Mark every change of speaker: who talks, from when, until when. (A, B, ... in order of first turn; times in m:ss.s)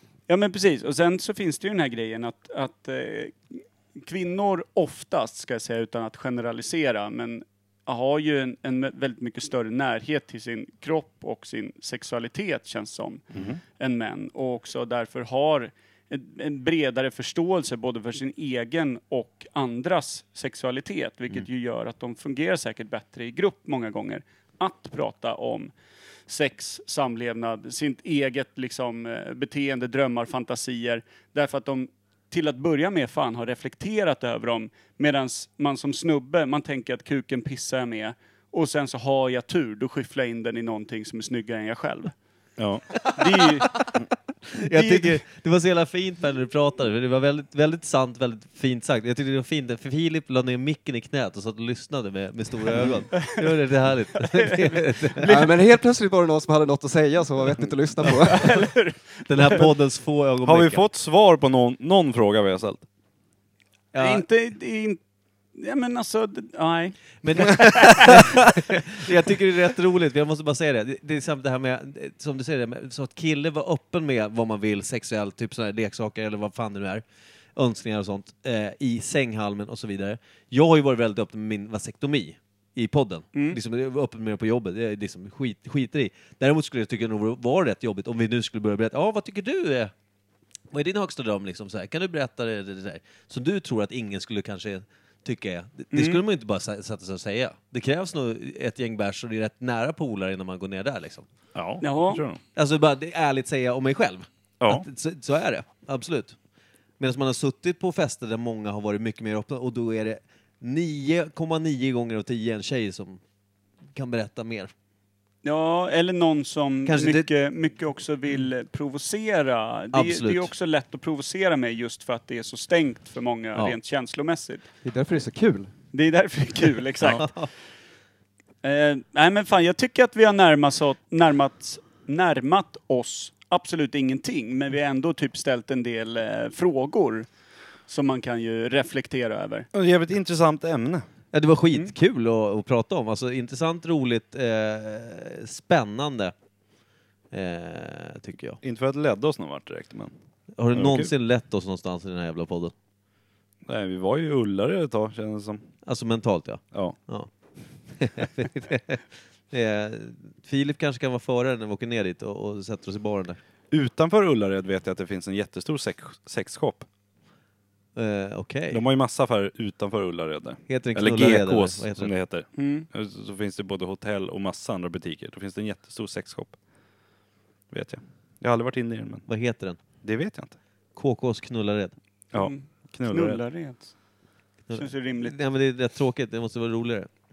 0:00.3-0:13.3 A
0:13.3-0:13.6 B
0:13.8-0:25.7 A
0:26.3-0:42.1 A
0:42.6-0:43.0 B
0:43.2-0:43.8 A
0:44.6-0:55.3 C
0:44.7-0:45.2 A
0:53.2-0:53.6 A
0:54.2-0:55.5 A
0:55.2-0:58.6 D
0:58.0-0:58.5 C
0:58.2-0:59.6 A
0:59.3-1:00.8 C
1:00.4-1:02.9 B
1:03.9-1:04.2 C
1:04.0-1:05.0 A
1:05.6-1:08.2 A
1:07.2-1:17.0 C
1:17.6-1:29.9 C
1:23.3-1:23.6 A
1:30.7-1:41.2 C
1:35.9-1:36.2 A
1:41.6-1:42.4 B
1:41.8-1:42.2 A
1:42.6-1:46.4 C
1:44.6-1:44.9 B
1:47.0-1:53.2 C
1:53.9-1:54.7 C
1:55.4-2:04.6 A
1:56.9-1:57.3 C
1:59.9-2:00.5 C
2:04.8-2:05.7 D
2:05.9-2:07.3 A
2:07.2-2:07.5 C
2:08.6-2:17.3 A
2:17.9-2:19.7 A
2:19.7-2:21.1 B
2:21.3-2:26.4 C
2:27.3-2:28.6 C
2:28.6-2:30.1 B
2:30.6-2:32.7 C
2:30.7-2:31.1 B
2:33.7-2:35.6 B
2:35.8-2:37.3 C
2:37.9-2:43.4 C
2:43.7-2:46.9 B
2:48.0-2:48.8 C
2:48.7-2:56.6 B
2:50.7-2:52.1 C
2:52.6-2:52.9 A
2:57.7-2:59.3 B
2:59.3-2:59.8 C
3:00.0-3:00.6 B
3:01.0-3:02.0 C
3:02.3-3:03.4 B
3:02.3-3:03.9 A
3:04.7-3:07.1 C
3:04.7-3:05.4 A